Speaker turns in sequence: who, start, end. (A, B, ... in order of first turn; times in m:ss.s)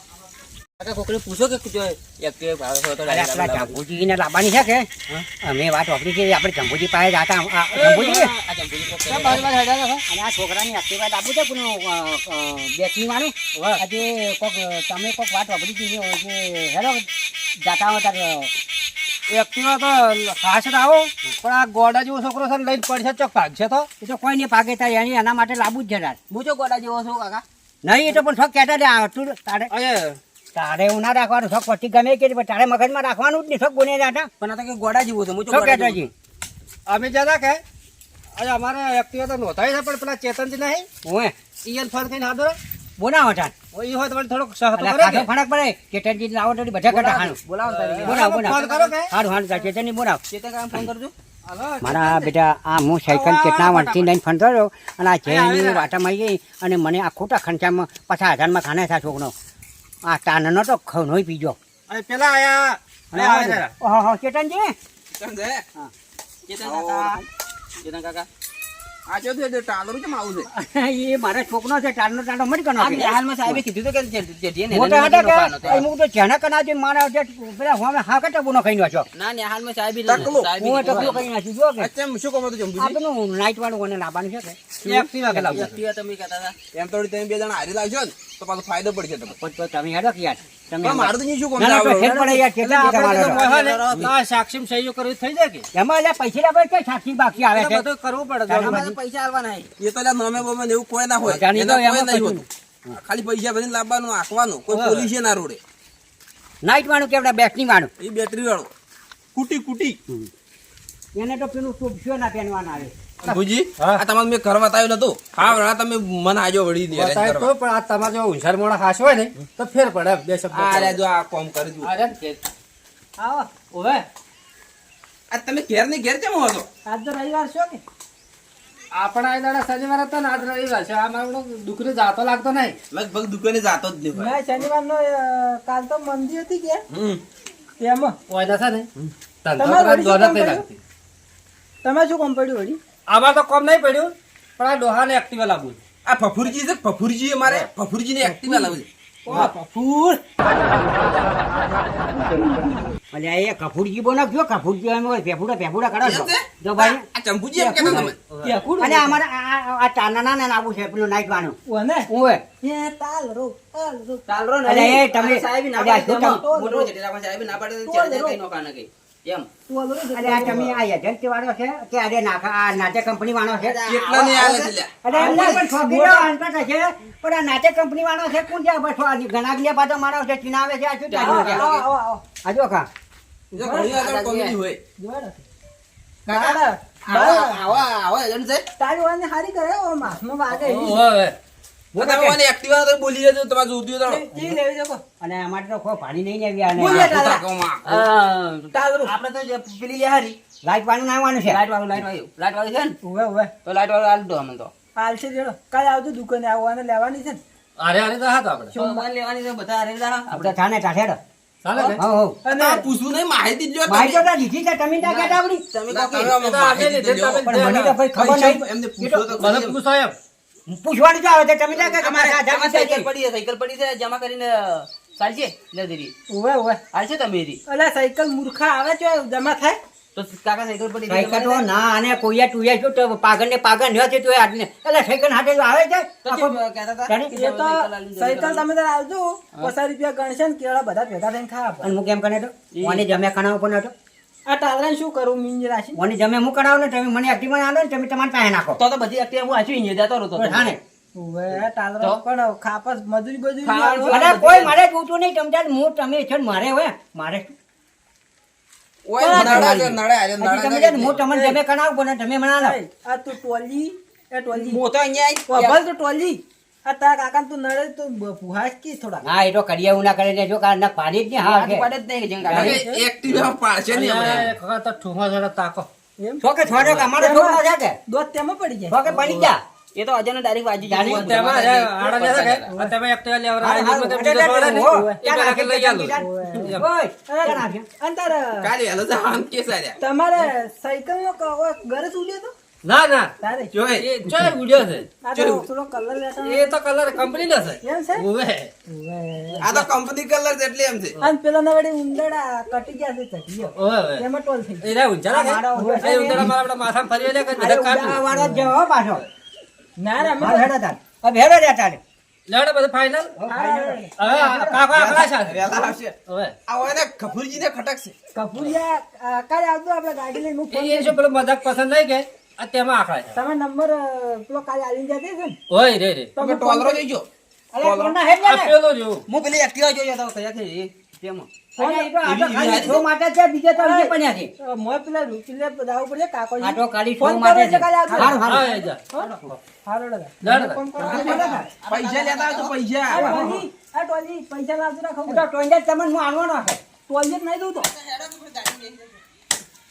0:00.8-0:03.8 A
0:03.0-0:08.3 B
0:07.7-0:08.2 C
0:08.0-0:09.5 A
0:09.1-0:10.0 C
0:10.1-0:17.1 B
0:13.5-0:13.8 C
0:17.6-0:18.5 B
0:19.3-0:23.9 C
0:24.0-0:26.2 B
0:26.3-0:27.4 A
0:27.8-0:29.7 B
0:29.7-0:30.2 C
0:30.5-0:34.3 B
0:34.4-0:36.1 A
0:35.5-0:36.1 B
0:36.9-0:37.6 C
0:38.4-0:40.9 C
0:41.0-0:41.3 B
0:41.6-0:42.6 C
0:43.0-0:43.5 B
0:43.7-0:45.3 C
0:44.7-0:47.4 B
0:46.9-0:48.5 A
0:47.6-0:49.1 C
0:48.0-0:50.2 B
0:50.3-0:51.1 A
0:51.4-0:52.3 C
0:51.8-0:59.3 B
0:53.1-0:54.1 C
0:55.2-0:55.9 C
1:00.0-1:01.6 B
1:01.9-1:03.7 C
1:03.1-1:04.7 B
1:05.1-1:05.6 D
1:06.5-1:07.2 A
1:06.6-1:07.2 D
1:07.8-1:08.3 A
1:09.1-1:10.5 D
1:10.5-1:13.6 B
1:12.8-1:15.9 A
1:14.7-1:19.1 B
1:19.1-1:21.3 A
1:20.0-1:21.1 D
1:20.6-1:21.9 B
1:21.8-1:23.0 D
1:22.8-1:25.6 B
1:24.8-1:25.8 C
1:25.4-1:26.6 A
1:26.7-1:29.4 D
1:29.4-1:33.4 B
1:30.8-1:32.2 D
1:32.0-1:34.1 A
1:32.6-1:35.6 C
1:33.9-1:34.1 D
1:35.7-1:37.8 B
1:37.4-1:38.8 C
1:38.5-1:39.0 B
1:38.5-1:39.7 A
1:39.8-1:45.6 D
1:41.2-1:43.0 B
1:44.7-1:45.1 C
1:46.6-1:47.9 B
1:48.0-1:48.7 D
1:49.3-1:50.0 D
1:51.2-1:52.9 B
1:53.2-1:57.5 D
1:53.2-1:54.0 C
1:56.9-2:01.0 C
2:00.5-2:01.9 D
2:01.8-2:02.4 C
2:03.2-2:03.5 E
2:03.7-2:04.0 C
2:05.3-2:06.7 D
2:06.8-2:07.8 E
2:08.9-2:12.8 C
2:12.9-2:14.6 D
2:14.2-2:16.8 E
2:16.9-2:17.2 D
2:17.8-2:18.2 E
2:18.3-2:18.9 C
2:19.4-2:20.7 C
2:19.6-2:20.6 E
2:21.8-2:22.8 E
2:23.1-2:25.8 C
2:26.0-2:29.5 D
2:28.2-2:30.2 E
2:33.1-2:37.0 B
2:36.0-2:38.2 D
2:37.6-2:38.1 B
2:37.8-2:38.5 C
2:38.4-2:39.2 A
2:38.8-2:41.6 B
2:41.6-2:42.1 E
2:42.1-2:42.4 B
2:42.6-2:44.2 E
2:44.3-2:49.5 A
2:44.6-2:46.4 B
2:46.3-2:46.9 E
2:47.8-2:48.4 E
2:49.7-2:50.6 E
2:50.1-3:01.7 B
2:53.5-2:54.2 A
2:53.9-2:55.6 D
2:55.1-2:56.3 E
3:01.1-3:01.9 A
3:01.2-3:02.2 E
3:02.4-3:02.9 B
3:03.5-3:04.0 E
3:03.5-3:04.8 D
3:03.9-3:04.6 A
3:05.0-3:05.4 E
3:06.3-3:07.7 E
3:07.1-3:08.6 A
3:08.8-3:11.0 E
3:10.6-3:11.4 C
3:11.9-3:14.4 D
3:14.0-3:15.0 E
3:15.2-3:17.1 B
3:16.8-3:17.5 E
3:16.8-3:18.0 D
3:17.8-3:20.4 A
3:18.7-3:19.1 E
3:20.6-3:21.6 B
3:21.4-3:23.0 A
3:23.0-3:23.5 E
3:23.6-3:24.7 A
3:25.0-3:27.4 E
3:27.8-3:28.8 C
3:28.7-3:29.0 E
3:28.7-3:30.5 A
3:30.3-3:31.2 B
3:31.6-3:32.0 C
3:32.0-3:32.4 B
3:32.4-3:32.9 E
3:32.5-3:34.2 D
3:33.9-3:35.6 B
3:35.0-3:36.3 A
3:35.9-3:37.5 D
3:36.4-3:37.9 C
3:37.4-3:39.4 B
3:38.1-3:39.8 D
3:39.4-3:40.1 C
3:40.7-3:43.1 B
3:41.7-3:46.1 A
3:46.3-3:46.8 E
3:46.9-3:47.6 A
3:47.7-3:49.8 E
3:50.1-3:51.6 A
3:51.1-3:57.3 B
3:56.2-3:58.6 A
3:57.3-4:01.9 E
4:01.8-4:03.9 B
4:02.7-4:03.0 A
4:04.4-4:06.0 E
4:05.9-4:08.8 B
4:08.8-4:10.7 A
4:10.4-4:10.8 B
4:11.1-4:14.7 E
4:13.6-4:14.7 A
4:14.1-4:17.5 B
4:19.0-4:21.2 D
4:19.2-4:19.8 E
4:19.3-4:22.8 B
4:21.3-4:21.6 E
4:22.6-4:24.8 E
4:24.5-4:25.8 A
4:25.5-4:29.2 E
4:29.2-4:31.9 B
4:31.4-4:33.5 A
4:32.5-4:34.5 D
4:32.5-4:32.8 C
4:32.7-4:33.0 E
4:33.9-4:35.9 C
4:36.4-4:38.0 B
4:36.7-4:37.1 C
4:37.2-4:39.1 E
4:38.9-4:39.6 B
4:39.9-4:42.7 A
4:40.8-4:41.4 B
4:41.0-4:46.8 C
4:42.7-4:42.9 E
4:43.6-4:47.9 B
4:44.8-4:45.2 E
4:46.2-4:46.8 E
4:47.3-4:48.7 E
4:48.6-4:50.0 D
4:50.0-4:52.5 E
4:52.8-4:53.3 C
4:53.4-4:53.7 E
4:53.7-4:54.5 D
4:54.0-4:55.1 C
4:55.2-4:56.7 E
4:55.3-4:55.6 D
4:56.4-4:58.7 C
4:57.8-4:58.2 E
4:58.9-4:59.7 E
4:59.6-5:01.2 D
5:01.2-5:04.9 E
5:03.8-5:04.2 C
5:04.8-5:08.2 C
5:05.3-5:06.5 B
5:05.7-5:06.5 E
5:07.6-5:08.7 E
5:07.6-5:09.2 B
5:10.0-5:10.7 E
5:10.2-5:12.0 B
5:12.5-5:13.3 C
5:13.4-5:14.0 B
5:13.5-5:14.9 E
5:14.2-5:16.5 C
5:14.9-5:16.2 D
5:16.7-5:18.1 D
5:18.3-5:21.2 E
5:20.7-5:23.4 C
5:23.3-5:25.6 E
5:25.7-5:26.3 C
5:26.4-5:27.0 E
5:26.4-5:27.3 D
5:27.8-5:28.2 D
5:27.8-5:28.7 B
5:28.4-5:29.2 C
5:29.3-5:31.5 A
5:31.8-5:34.5 B
5:31.8-5:33.0 E
5:32.2-5:33.0 D
5:33.8-5:41.7 E
5:36.6-5:38.7 B
5:38.4-5:39.6 C
5:40.4-5:40.8 C
5:41.0-5:42.8 A
5:41.0-5:43.5 D
5:41.1-5:41.7 B
5:43.1-5:45.4 E
5:43.2-5:43.5 B
5:45.2-5:46.8 B
5:47.1-5:47.9 E
5:47.9-5:49.0 A